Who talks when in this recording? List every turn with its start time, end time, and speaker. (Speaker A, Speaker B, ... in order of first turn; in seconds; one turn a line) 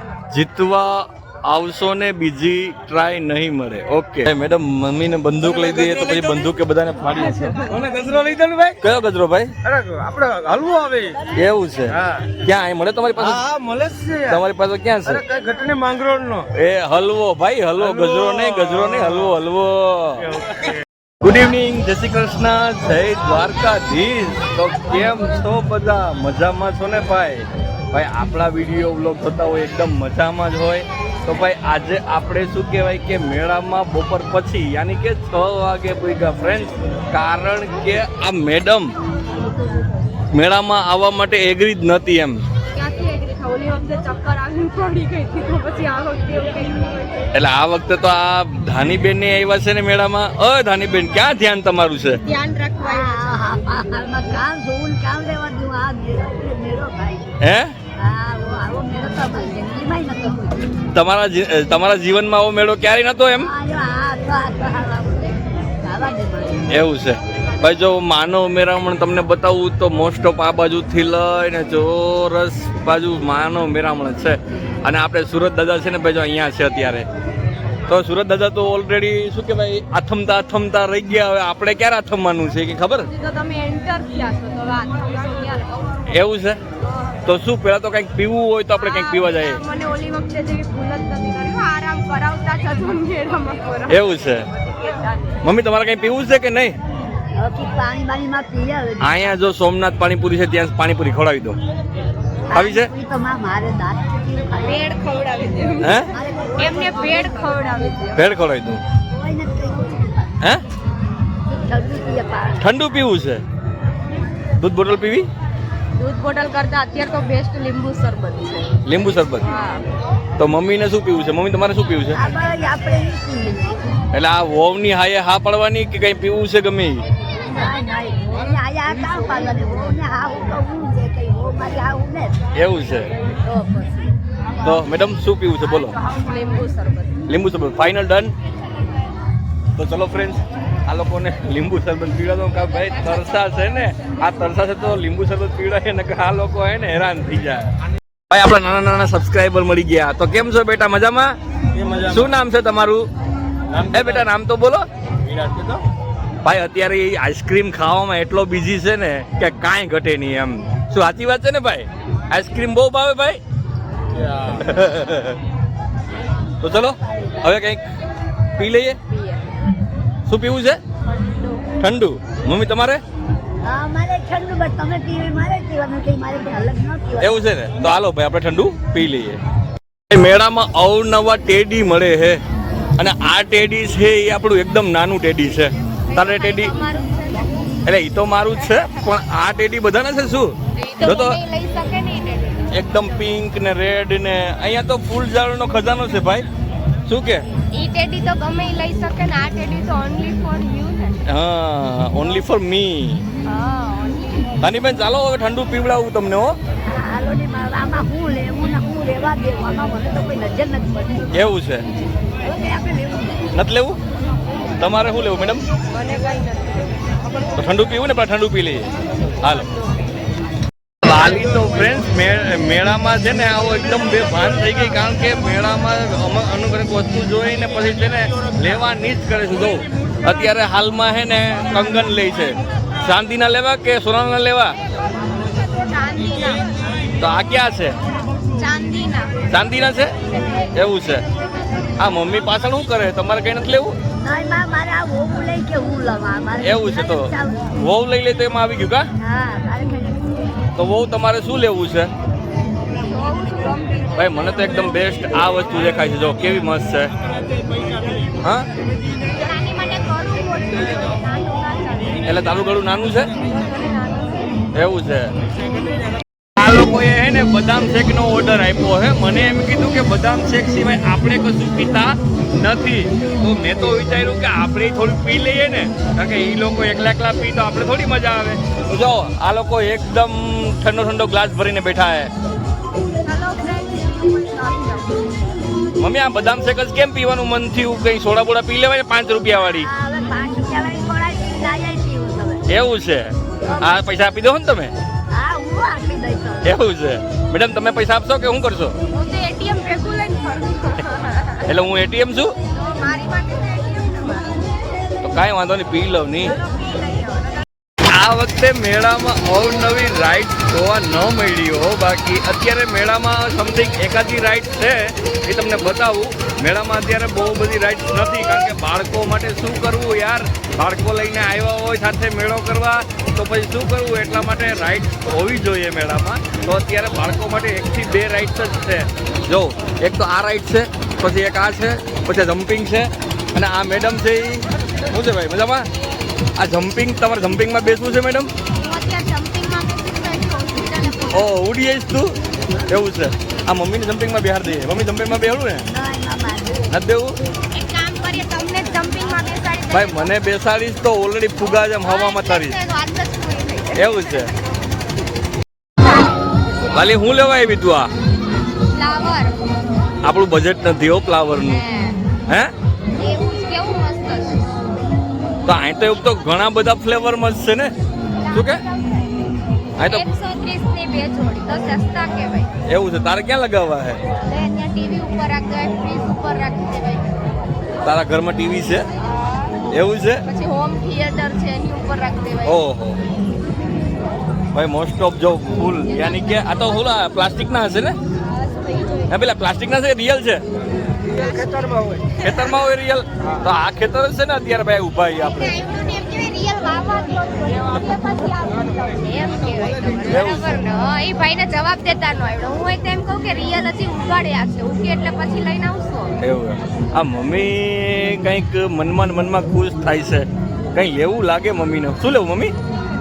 Speaker A: 0.3-7.7
Speaker B: 7.7-8.8
Speaker A: 8.8-9.5
Speaker B: 9.6-11.2
Speaker A: 11.3-13.4
Speaker B: 11.9-12.2
Speaker B: 13.2-14.4
Speaker A: 14.2-15.2
Speaker B: 15.1-16.5
Speaker A: 16.5-20.3
Speaker B: 17.9-18.9
Speaker A: 21.2-38.9
Speaker A: 40.3-42.4
Speaker C: 42.7-47.2
Speaker A: 47.3-52.2
Speaker C: 52.2-53.4
Speaker D: 52.8-57.3
Speaker A: 57.4-57.7
Speaker D: 58.0-60.8
Speaker A: 60.9-63.5
Speaker D: 63.4-66.7
Speaker A: 66.7-77.1
Speaker A: 77.9-83.1
Speaker C: 83.1-86.1
Speaker A: 86.1-86.6
Speaker A: 87.2-89.6
Speaker C: 88.7-95.3
Speaker A: 93.9-94.5
Speaker A: 95.4-96.8
Speaker D: 97.4-99.3
Speaker A: 99.0-101.6
Speaker D: 102.5-104.9
Speaker A: 102.5-102.9
Speaker C: 104.6-106.0
Speaker A: 105.8-106.1
Speaker D: 106.1-107.8
Speaker C: 106.6-108.2
Speaker A: 108.1-108.8
Speaker D: 109.1-110.4
Speaker D: 111.5-112.6
Speaker A: 112.6-113.4
Speaker A: 114.6-115.3
Speaker C: 116.0-118.7
Speaker A: 118.8-119.5
Speaker C: 119.4-119.8
Speaker A: 120.4-122.2
Speaker D: 122.1-123.8
Speaker A: 124.1-127.0
Speaker D: 127.5-132.3
Speaker A: 132.5-133.1
Speaker C: 133.4-134.0
Speaker A: 134.6-136.0
Speaker C: 135.6-137.2
Speaker A: 137.3-138.3
Speaker A: 139.7-147.7
Speaker A: 148.3-151.3
Speaker B: 151.7-152.1
Speaker A: 152.1-153.0
Speaker A: 153.7-155.8
Speaker A: 156.4-163.4
Speaker A: 164.1-165.4
Speaker A: 166.6-167.8
Speaker A: 168.6-169.0
Speaker C: 169.1-169.5
Speaker A: 170.2-170.8
Speaker C: 171.1-171.6
Speaker A: 171.8-173.0
Speaker D: 173.6-177.4
Speaker A: 177.2-179.4
Speaker A: 180.1-182.4
Speaker A: 183.0-186.7
Speaker C: 186.1-187.6
Speaker A: 187.8-191.4
Speaker C: 188.5-188.9
Speaker C: 190.8-192.7
Speaker A: 192.7-196.5
Speaker A: 197.1-197.4
Speaker C: 197.7-201.2
Speaker A: 201.2-203.2
Speaker C: 203.4-204.6
Speaker A: 204.6-206.6
Speaker D: 206.9-211.4
Speaker A: 211.3-211.8
Speaker D: 212.4-213.5
Speaker A: 213.5-214.0
Speaker A: 214.8-215.6
Speaker C: 215.9-217.5
Speaker A: 217.6-219.7
Speaker C: 219.3-220.3
Speaker A: 221.0-234.8
Speaker C: 235.7-236.6
Speaker A: 237.2-237.9
Speaker C: 238.5-239.3
Speaker A: 239.5-240.1
Speaker A: 240.7-241.2
Speaker A: 242.0-244.0
Speaker D: 244.2-247.6
Speaker A: 246.6-249.1
Speaker D: 249.2-250.5
Speaker A: 250.8-252.1
Speaker C: 253.0-254.6
Speaker A: 254.1-257.1
Speaker A: 258.4-258.7
Speaker C: 259.2-262.4
Speaker A: 262.2-263.3
Speaker C: 263.4-264.6
Speaker A: 264.7-265.3
Speaker A: 266.6-282.3
Speaker C: 283.2-285.3
Speaker A: 286.0-289.9
Speaker D: 289.7-292.6
Speaker A: 292.7-294.9
Speaker C: 293.7-294.0
Speaker D: 295.3-296.8
Speaker A: 296.6-298.9
Speaker C: 299.1-301.7
Speaker A: 301.6-302.5
Speaker C: 302.7-304.6
Speaker A: 305.2-306.6
Speaker C: 306.4-307.6
Speaker A: 308.0-335.9
Speaker A: 336.6-338.5
Speaker C: 338.7-341.5
Speaker A: 341.3-342.3
Speaker A: 342.9-345.9
Speaker D: 345.9-346.9
Speaker A: 346.9-347.4
Speaker C: 347.7-350.3
Speaker A: 349.9-352.8
Speaker C: 351.7-354.5
Speaker A: 353.9-354.5
Speaker C: 356.0-356.3
Speaker A: 356.9-358.1
Speaker C: 358.9-359.5
Speaker A: 360.2-361.8
Speaker C: 361.6-362.2
Speaker C: 363.1-364.6
Speaker A: 365.6-367.9
Speaker A: 368.5-368.8
Speaker A: 370.0-370.3
Speaker C: 370.0-372.7
Speaker A: 372.9-374.2
Speaker C: 374.4-377.4
Speaker A: 378.0-379.1
Speaker C: 379.2-379.7
Speaker A: 379.9-380.4
Speaker C: 380.4-382.8
Speaker A: 382.6-383.2
Speaker A: 384.7-388.1
Speaker C: 386.1-387.0
Speaker C: 388.5-389.3
Speaker A: 389.3-390.6
Speaker C: 391.2-391.7
Speaker B: 391.3-392.3
Speaker A: 392.4-395.8
Speaker C: 392.4-392.7
Speaker C: 395.3-406.4
Speaker A: 400.2-400.8
Speaker A: 406.4-412.7